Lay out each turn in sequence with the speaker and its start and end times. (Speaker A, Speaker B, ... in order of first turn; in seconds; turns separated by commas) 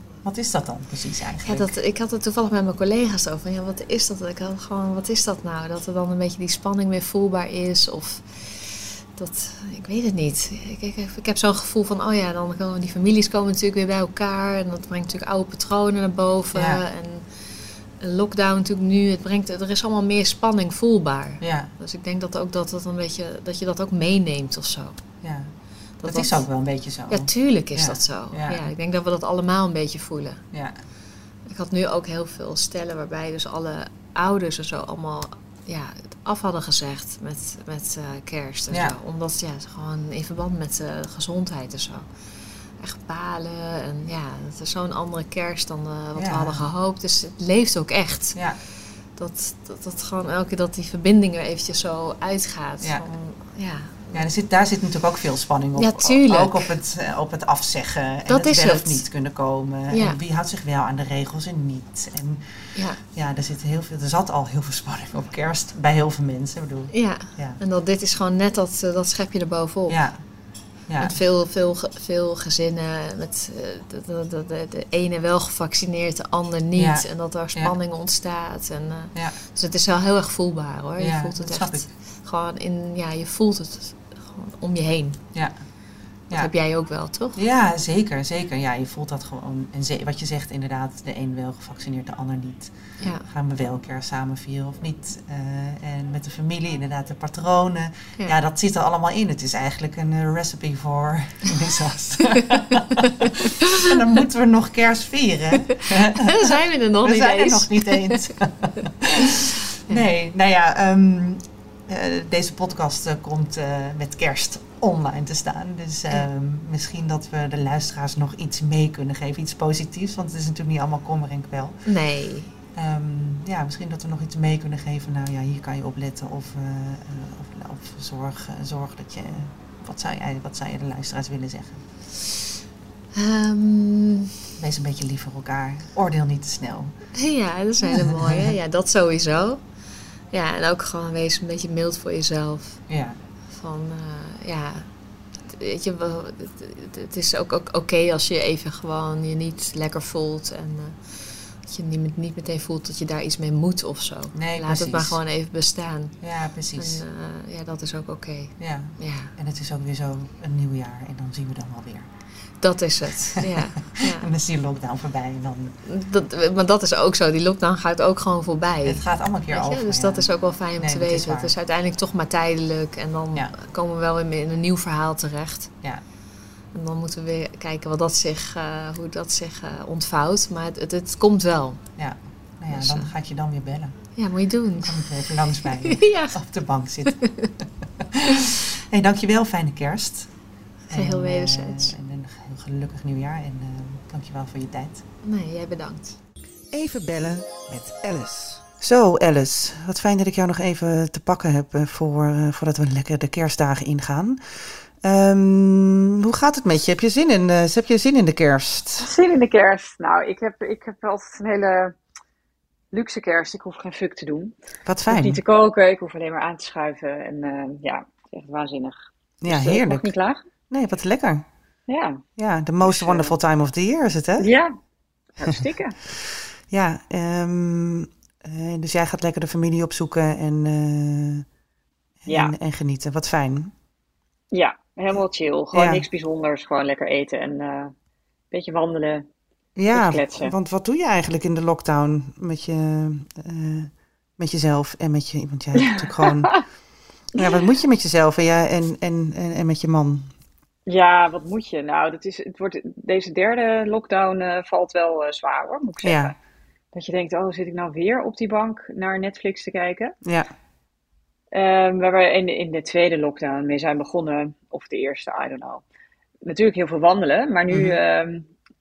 Speaker A: 0.2-1.7, Speaker B: 1.4-17.3, Speaker A: 16.6-16.8, Speaker B: 18.0-25.0, Speaker A: 21.4-21.7, Speaker A: 25.2-25.5, Speaker B: 26.0-26.4, Speaker A: 26.0-28.6, Speaker B: 27.1-30.4, Speaker A: 30.5-30.8, Speaker B: 31.5-42.1, Speaker A: 38.7-39.0, Speaker B: 42.8-48.4, Speaker A: 46.2-46.7, Speaker B: 49.2-54.3, Speaker A: 52.8-53.1, Speaker A: 54.1-67.6, Speaker B: 55.8-56.7, Speaker B: 58.3-59.0, Speaker B: 59.9-60.2, Speaker B: 62.8-63.0, Speaker B: 66.9-70.0, Speaker A: 69.9-70.2, Speaker A: 70.9-71.2, Speaker B: 71.0-85.2, Speaker A: 76.8-77.7, Speaker A: 81.0-81.9, Speaker B: 86.3-87.4, Speaker A: 87.4-121.9, Speaker B: 93.0-93.3, Speaker B: 103.0-103.5, Speaker B: 106.0-108.3, Speaker B: 121.9-122.5, Speaker A: 122.8-131.8, Speaker B: 133.2-134.3, Speaker A: 134.6-136.9, Speaker B: 137.2-139.6, Speaker A: 137.8-138.5, Speaker B: 140.3-142.8, Speaker A: 142.9-143.2, Speaker B: 143.5-144.9, Speaker B: 145.5-156.2, Speaker A: 154.3-155.2, Speaker A: 156.2-157.0, Speaker B: 156.8-159.3, Speaker A: 158.6-162.1, Speaker B: 162.6-164.3, Speaker A: 163.4-165.8, Speaker B: 165.8-175.7, Speaker A: 168.8-171.5, Speaker B: 176.7-181.8, Speaker A: 182.0-184.0, Speaker B: 182.7-183.1, Speaker B: 184.2-186.4, Speaker A: 184.8-187.2, Speaker B: 187.1-187.5, Speaker A: 188.0-190.3, Speaker B: 190.9-191.9, Speaker A: 190.9-195.0, Speaker B: 195.2-196.2, Speaker A: 196.7-209.1, Speaker C: 209.0-212.0, Speaker C: 212.9-214.6, Speaker A: 214.9-215.4, Speaker C: 215.1-220.4, Speaker A: 219.4-220.1, Speaker A: 220.7-221.5, Speaker C: 221.9-222.2, Speaker A: 222.4-224.5, Speaker C: 222.8-223.4, Speaker C: 224.4-224.7, Speaker C: 225.4-226.0, Speaker A: 226.1-231.5, Speaker A: 232.2-233.7, Speaker C: 232.3-232.6, Speaker C: 234.5-237.9, Speaker A: 235.7-236.1, Speaker C: 238.5-239.3, Speaker A: 239.8-246.5, Speaker C: 239.9-240.6, Speaker C: 245.8-246.6, Speaker A: 247.3-250.3, Speaker C: 250.9-256.4, Speaker A: 256.0-256.4, Speaker C: 256.9-260.1, Speaker A: 260.2-260.5, Speaker C: 261.5-265.8, Speaker C: 266.4-268.5, Speaker A: 267.7-268.0